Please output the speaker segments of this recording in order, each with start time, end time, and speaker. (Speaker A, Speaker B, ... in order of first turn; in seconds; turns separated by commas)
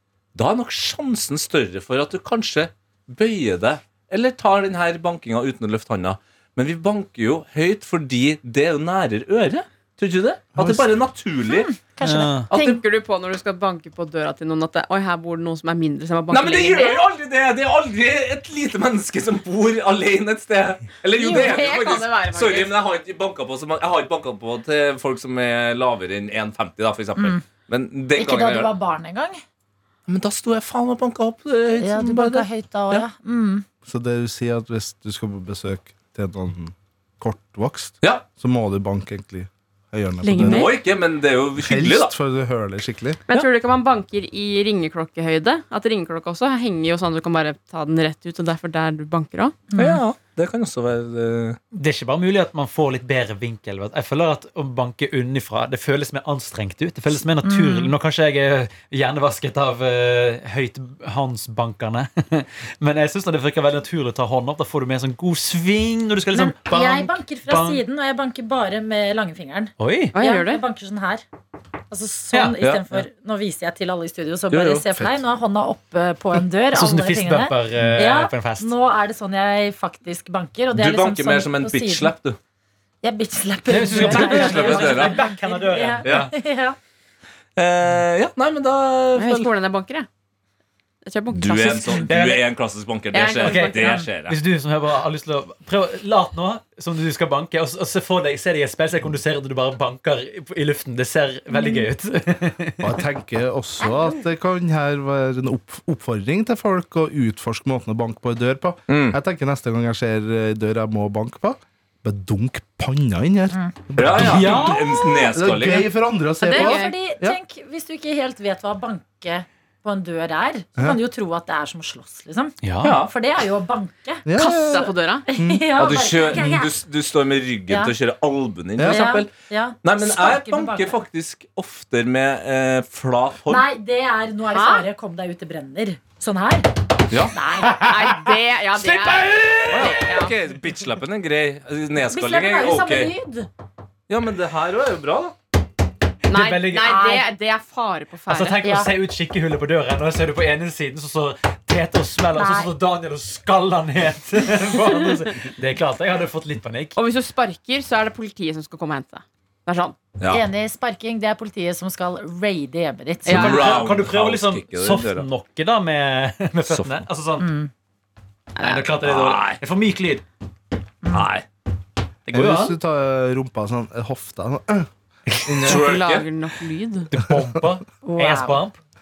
Speaker A: 0.3-11.8, Speaker B: 10.6-10.8, Speaker C: 11.5-12.4, Speaker D: 12.0-12.5, Speaker A: 12.5-12.8, Speaker E: 12.5-17.1, Speaker A: 16.3-28.7, Speaker E: 21.2-22.8, Speaker C: 21.2-21.7, Speaker C: 27.2-27.4, Speaker C: 28.2-29.4, Speaker A: 30.1-33.0, Speaker C: 31.8-33.6, Speaker B: 33.9-40.7, Speaker E: 40.2-40.8, Speaker A: 40.4-42.1, Speaker B: 41.6-43.2, Speaker E: 43.3-49.6, Speaker C: 49.7-50.0, Speaker A: 49.8-51.6, Speaker D: 51.7-67.8, Speaker C: 57.4-57.9, Speaker C: 66.3-71.2, Speaker D: 69.8-70.2, Speaker E: 70.2-70.6, Speaker C: 71.9-82.1, Speaker D: 72.3-73.1, Speaker A: 74.5-74.8, Speaker B: 75.0-75.2, Speaker D: 76.7-78.7, Speaker A: 80.7-82.4, Speaker C: 83.0-86.8, Speaker D: 83.7-86.3, Speaker A: 84.0-85.3, Speaker A: 86.0-86.3, Speaker A: 87.6-89.5, Speaker E: 89.2-90.1, Speaker E: 91.0-92.1, Speaker A: 91.3-94.4, Speaker D: 92.0-92.5, Speaker E: 93.1-94.0, Speaker D: 93.3-102.9, Speaker C: 101.5-101.9, Speaker B: 102.8-117.4, Speaker C: 103.8-104.2, Speaker A: 108.9-109.2, Speaker A: 114.0-115.9, Speaker D: 114.1-114.9, Speaker C: 116.4-124.2, Speaker E: 116.5-117.0, Speaker D: 122.6-123.0, Speaker A: 122.8-123.1, Speaker B: 124.2-125.9, Speaker E: 124.4-125.2, Speaker C: 125.3-126.8, Speaker A: 125.8-129.3, Speaker C: 127.7-127.9, Speaker B: 128.8-129.1, Speaker C: 128.8-131.0, Speaker A: 129.8-133.7, Speaker C: 133.5-136.7, Speaker E: 134.5-134.9, Speaker A: 137.1-137.4, Speaker C: 137.3-137.8, Speaker D: 137.6-138.2, Speaker E: 137.8-140.3, Speaker D: 138.8-140.0, Speaker A: 139.7-143.1, Speaker C: 142.1-143.5, Speaker A: 144.1-145.4, Speaker D: 146.3-147.0, Speaker E: 146.3-148.7, Speaker C: 146.8-147.3, Speaker D: 148.3-156.9, Speaker C: 148.6-148.9, Speaker C: 152.3-152.7, Speaker E: 157.0-160.0, Speaker A: 160.2-160.4, Speaker C: 160.3-163.6, Speaker E: 163.2-163.9, Speaker D: 163.3-167.5, Speaker A: 163.3-165.3, Speaker A: 166.7-167.1, Speaker C: 167.4-167.7, Speaker E: 168.6-168.9, Speaker D: 168.6-170.2, Speaker A: 169.0-169.6, Speaker A: 171.1-171.5, Speaker D: 172.3-172.8, Speaker B: 172.3-174.9, Speaker B: 175.4-176.0, Speaker A: 175.5-176.3, Speaker E: 175.6-177.1, Speaker D: 177.1-178.8, Speaker C: 178.0-178.6